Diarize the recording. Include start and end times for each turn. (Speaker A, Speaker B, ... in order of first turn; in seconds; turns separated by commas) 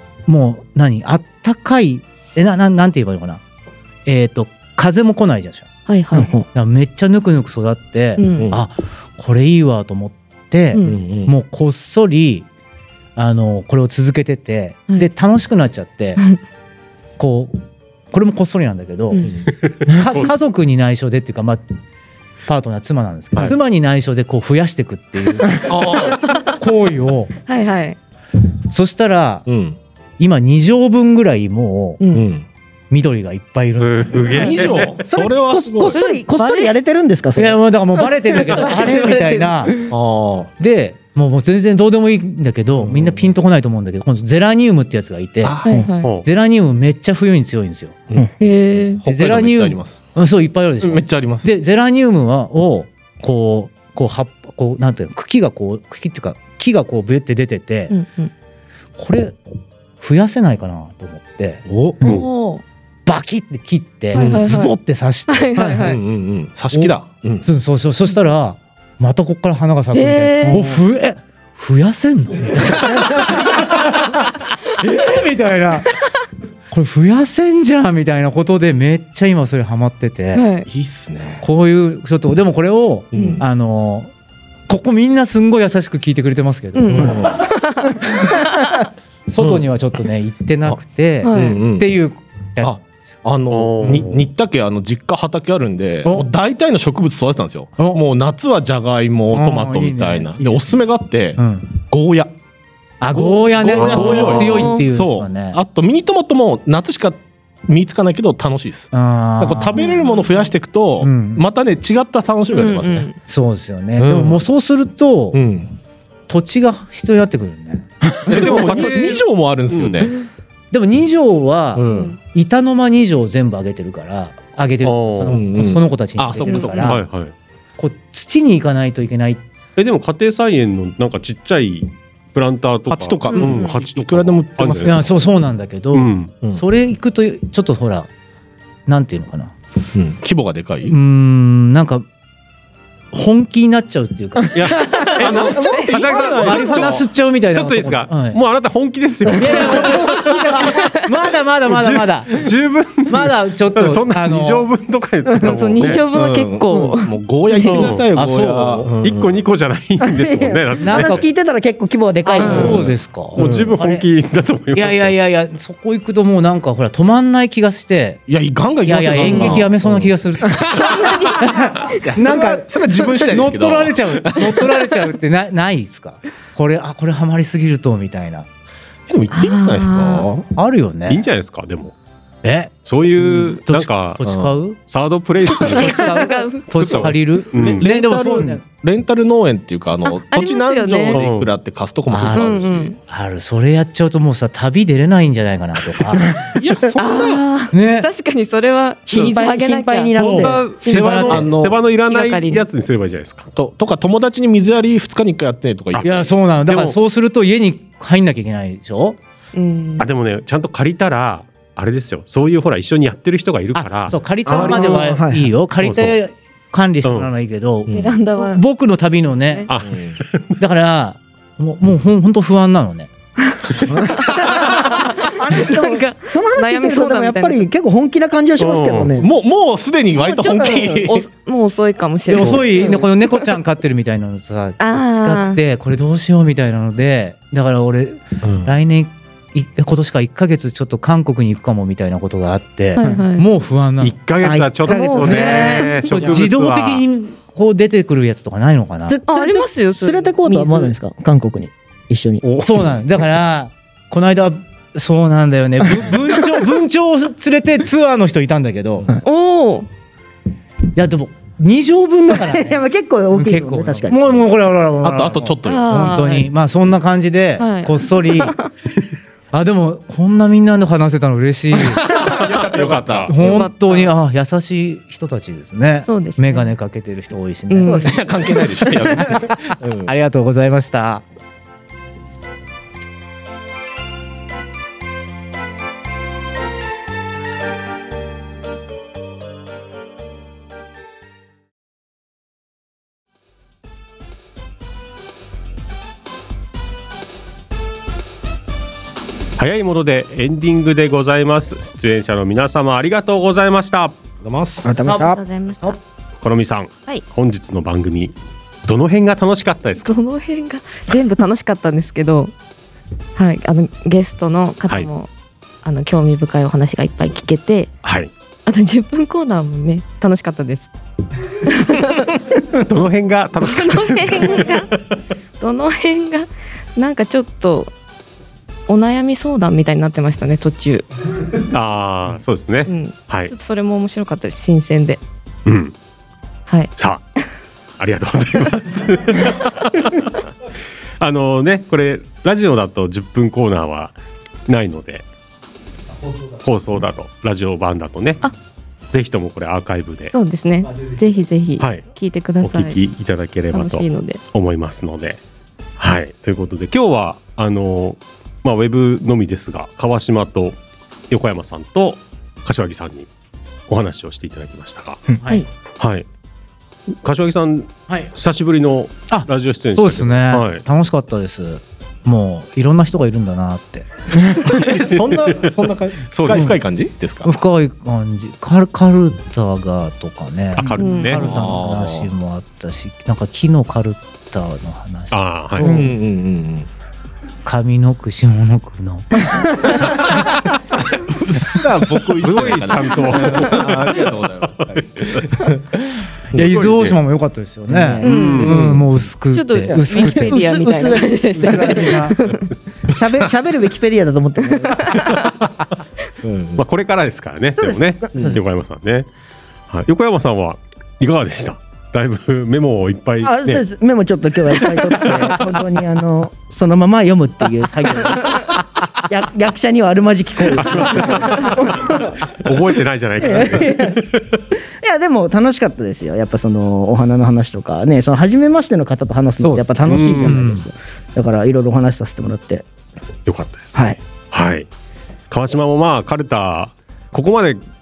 Speaker A: 0.3-3.4, Speaker A: 4.0-5.7, Speaker B: 5.9-6.3, Speaker C: 6.1-6.5, Speaker A: 6.5-12.5, Speaker B: 8.2-8.5, Speaker D: 8.3-8.6, Speaker D: 10.8-11.3, Speaker A: 13.2-16.2, Speaker A: 17.2-19.2, Speaker D: 19.2-19.5, Speaker E: 19.6-20.3, Speaker A: 19.9-21.6, Speaker A: 22.4-27.3, Speaker D: 25.7-26.3, Speaker B: 27.5-28.0, Speaker A: 28.7-29.5, Speaker D: 29.5-29.8, Speaker A: 30.2-32.0, Speaker B: 32.0-32.3, Speaker D: 32.1-32.5, Speaker A: 32.9-34.5, Speaker E: 33.8-35.0, Speaker D: 34.3-36.0, Speaker C: 35.0-37.6, Speaker B: 35.9-36.7, Speaker A: 37.3-39.9, Speaker B: 38.4-39.9, Speaker D: 39.9-40.5, Speaker A: 40.6-45.6, Speaker D: 42.8-43.3, Speaker D: 45.4-46.0, Speaker B: 45.6-46.1, Speaker E: 46.0-46.2, Speaker A: 46.1-48.0, Speaker B: 48.4-49.0, Speaker D: 49.0-50.0, Speaker A: 49.0-57.9, Speaker D: 50.8-51.5, Speaker B: 57.9-58.3, Speaker A: 59.0-59.4, Speaker A: 60.0-61.6, Speaker D: 61.7-62.0, Speaker B: 62.0-62.6, Speaker A: 63.0-66.0, Speaker B: 64.1-64.7, Speaker D: 64.1-64.8, Speaker B: 65.3-66.0, Speaker D: 65.7-67.5, Speaker A: 66.7-76.0, Speaker B: 69.9-70.6, Speaker A: 76.7-80.5, Speaker B: 80.3-80.7, Speaker D: 80.7-81.4, Speaker A: 81.4-84.1, Speaker D: 83.1-83.4, Speaker B: 83.1-83.4, Speaker A: 84.7-87.2, Speaker B: 86.7-87.9, Speaker D: 86.9-87.4, Speaker A: 89.3-93.0, Speaker D: 89.4-89.7, Speaker B: 91.2-91.6, Speaker D: 91.3-91.9, Speaker D: 92.6-102.3, Speaker E: 93.5-94.2, Speaker A: 93.8-94.2, Speaker A: 97.8-98.0, Speaker A: 99.3-100.8, Speaker A: 101.3-101.7, Speaker A: 103.0-105.6, Speaker D: 103.1-113.1, Speaker B: 104.1-104.8, Speaker A: 108.9-110.0, Speaker B: 109.8-110.3, Speaker A: 111.0-111.4, Speaker B: 112.5-113.2, Speaker A: 113.2-115.4, Speaker D: 114.0-114.4, Speaker D: 115.3-115.7, Speaker A: 116.3-119.1, Speaker D: 118.2-120.2, Speaker E: 118.3-120.1, Speaker A: 120.7-127.0, Speaker D: 121.7-122.2, Speaker B: 121.9-122.2, Speaker E: 124.8-125.4, Speaker D: 125.3-127.0, Speaker B: 126.4-126.8, Speaker E: 126.6-127.3, Speaker A: 127.8-129.4, Speaker E: 129.8-135.1, Speaker D: 132.9-135.1, Speaker B: 133.3-133.8, Speaker A: 134.8-138.1, Speaker E: 135.9-136.3, Speaker A: 138.9-139.5, Speaker D: 139.9-140.9, Speaker A: 140.9-142.1, Speaker A: 143.1-144.8, Speaker E: 144.5-150.7, Speaker B: 144.9-146.0, Speaker D: 145.2-147.1, Speaker A: 146.3-148.4, Speaker A: 149.3-152.4, Speaker E: 151.7-156.1, Speaker A: 153.1-154.7, Speaker B: 155.4-157.9, Speaker D: 155.9-159.4, Speaker E: 157.6-158.0, Speaker A: 158.1-158.9, Speaker E: 159.0-161.2, Speaker C: 160.0-162.8, Speaker A: 160.8-161.2, Speaker A: 162.2-164.1, Speaker B: 162.4-162.8, Speaker D: 162.4-163.8, Speaker E: 163.3-165.1, Speaker A: 164.7-168.2, Speaker D: 168.3-171.1, Speaker A: 168.8-178.5, Speaker B: 170.8-171.4, Speaker D: 171.9-174.8, Speaker D: 179.1-180.5, Speaker B: 179.3-180.3, Speaker A: 180.6-181.2, Speaker E: 181.1-181.9, Speaker A: 182.4-182.7, Speaker E: 182.8-184.2, Speaker A: 183.3-184.8, Speaker D: 184.2-184.6, Speaker E: 184.9-187.9, Speaker A: 185.5-188.6, Speaker B: 185.5-187.0, Speaker D: 186.9-192.9, Speaker B: 190.0-191.2, Speaker E: 191.1-191.5, Speaker A: 192.1-196.6, Speaker B: 192.3-192.9, Speaker D: 196.6-197.4, Speaker B: 196.9-201.4, Speaker A: 197.7-198.1, Speaker C: 199.1-200.8, Speaker A: 200.2-201.5, Speaker E: 200.2-203.5, Speaker D: 201.3-201.8, Speaker B: 202.1-202.6, Speaker D: 203.5-206.3, Speaker A: 206.0-209.2, Speaker E: 206.7-207.0, Speaker B: 209.5-210.1, Speaker E: 210.0-214.6, Speaker A: 213.8-219.7, Speaker C: 214.4-215.5, Speaker E: 215.8-216.2, Speaker E: 217.0-217.3, Speaker D: 217.9-218.2, Speaker B: 217.9-218.6, Speaker E: 219.7-220.5, Speaker D: 219.8-220.2, Speaker A: 220.6-223.1, Speaker B: 223.5-227.7, Speaker C: 224.0-229.3, Speaker E: 228.6-229.2, Speaker D: 229.2-231.3, Speaker B: 230.1-233.0, Speaker A: 232.3-244.2, Speaker C: 232.7-233.0, Speaker B: 234.8-235.6, Speaker D: 238.4-238.8, Speaker B: 242.9-243.4, Speaker E: 244.0-247.0, Speaker C: 244.4-245.9, Speaker B: 244.8-245.5, Speaker A: 245.2-249.2, Speaker C: 249.1-252.4, Speaker B: 249.3-250.9, Speaker A: 252.6-259.1, Speaker B: 259.2-259.9, Speaker A: 260.9-268.6, Speaker C: 262.3-264.4, Speaker D: 265.0-266.2, Speaker B: 265.6-266.5, Speaker B: 267.6-268.7, Speaker A: 269.5-272.2, Speaker D: 271.9-273.4, Speaker E: 272.1-273.3, Speaker A: 273.3-278.1, Speaker B: 273.4-274.1, Speaker B: 276.1-276.7, Speaker B: 277.7-278.1, Speaker D: 277.9-280.1, Speaker A: 280.0-281.2, Speaker E: 299.6-304.1, Speaker D: 304.4-304.9, Speaker C: 304.8-305.4, Speaker B: 305.1-306.0, Speaker E: 306.4-310.1, Speaker B: 310.0-312.5, Speaker B: 313.4-315.3, Speaker B: 315.8-317.9, Speaker E: 318.0-318.3, Speaker B: 318.6-320.9, Speaker B: 321.6-322.3, Speaker E: 322.7-324.8, Speaker B: 323.6-324.9, Speaker B: 325.6-327.9, Speaker B: 328.9-331.1, Speaker E: 331.7-333.5, Speaker B: 332.9-335.2, Speaker E: 335.6-335.9, Speaker E: 337.0-337.2, Speaker E: 338.0-340.3, Speaker E: 341.2-344.1, Speaker E: 344.7-345.2, Speaker E: 346.6-348.4, Speaker E: 349.1-350.3, Speaker B: 350.3-353.0, Speaker E: 351.8-352.0, Speaker E: 352.6-355.4, Speaker B: 353.7-354.4, Speaker E: 356.0-360.8, Speaker E: 361.3-363.3, Speaker E: 363.9-365.2, Speaker E: 366.0-366.2, Speaker E: 367.2-370.8, Speaker A: 369.3-374.6, Speaker D: 374.5-377.5, Speaker E: 375.4-375.7, Speaker E: 376.3-376.8, Speaker A: 376.5-376.8, Speaker A: 377.4-386.2, Speaker E: 380.7-381.6, Speaker B: 381.0-381.4, Speaker D: 381.3-382.3, Speaker E: 385.3-386.0, Speaker D: 385.8-386.9, Speaker A: 387.6-390.0, Speaker D: 391.3-395.8, Speaker E: 392.2-394.3, Speaker E: 394.9-395.7, Speaker A: 396.5-400.6, Speaker E: 396.6-397.1, Speaker C: 397.9-399.0, Speaker B: 398.2-398.8, Speaker E: 398.2-398.9, Speaker B: 399.5-402.7, Speaker C: 399.9-402.2, Speaker A: 401.5-402.4, Speaker C: 403.1-405.1, Speaker B: 405.0-405.4, Speaker D: 406.4-406.8, Speaker E: 406.8-409.3, Speaker C: 407.8-408.6, Speaker E: 409.9-413.8, Speaker C: 413.4-422.3, Speaker E: 414.9-415.6, Speaker E: 420.7-424.4, Speaker C: 423.4-424.2, Speaker C: 425.0-432.9, Speaker A: 429.6-430.8, Speaker E: 430.0-430.7, Speaker E: 433.4-434.9, Speaker C: 433.9-434.2, Speaker E: 435.5-437.8